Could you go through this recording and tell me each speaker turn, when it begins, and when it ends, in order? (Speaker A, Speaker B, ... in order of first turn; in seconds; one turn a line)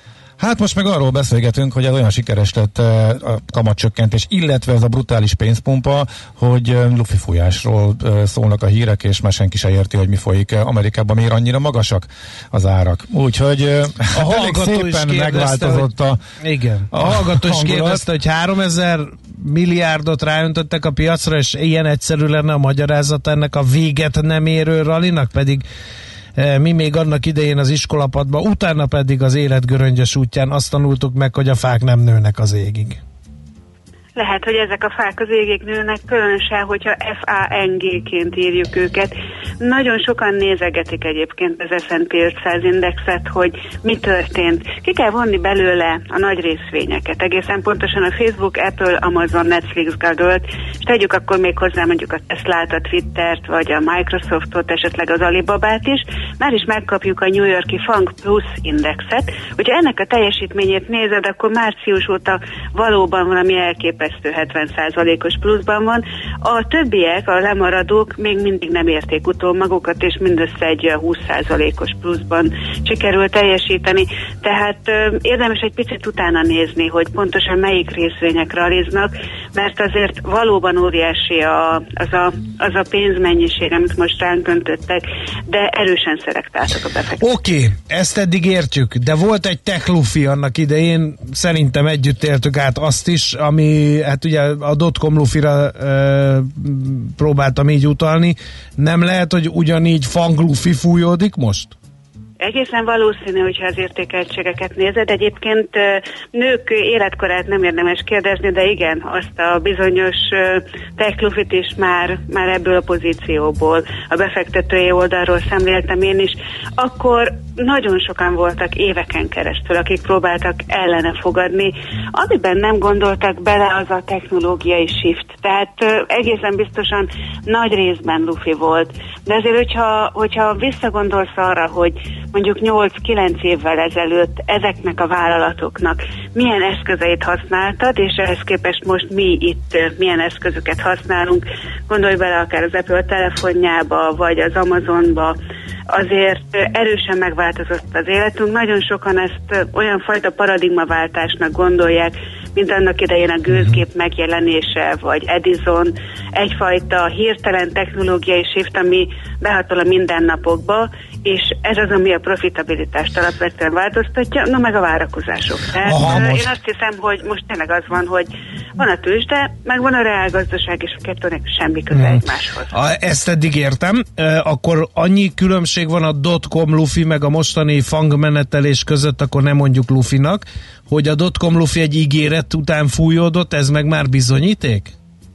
Speaker A: 0.4-16.2
Speaker B: 14.1-25.6
Speaker A: 16.9-18.1
Speaker B: 26.4-33.0
Speaker C: 34.2-87.3
Speaker B: 87.2-101.7
Speaker C: 102.4-145.4
Speaker C: 145.9-172.8
Speaker B: 165.8-166.5
Speaker B: 171.9-172.2
Speaker B: 172.7-184.9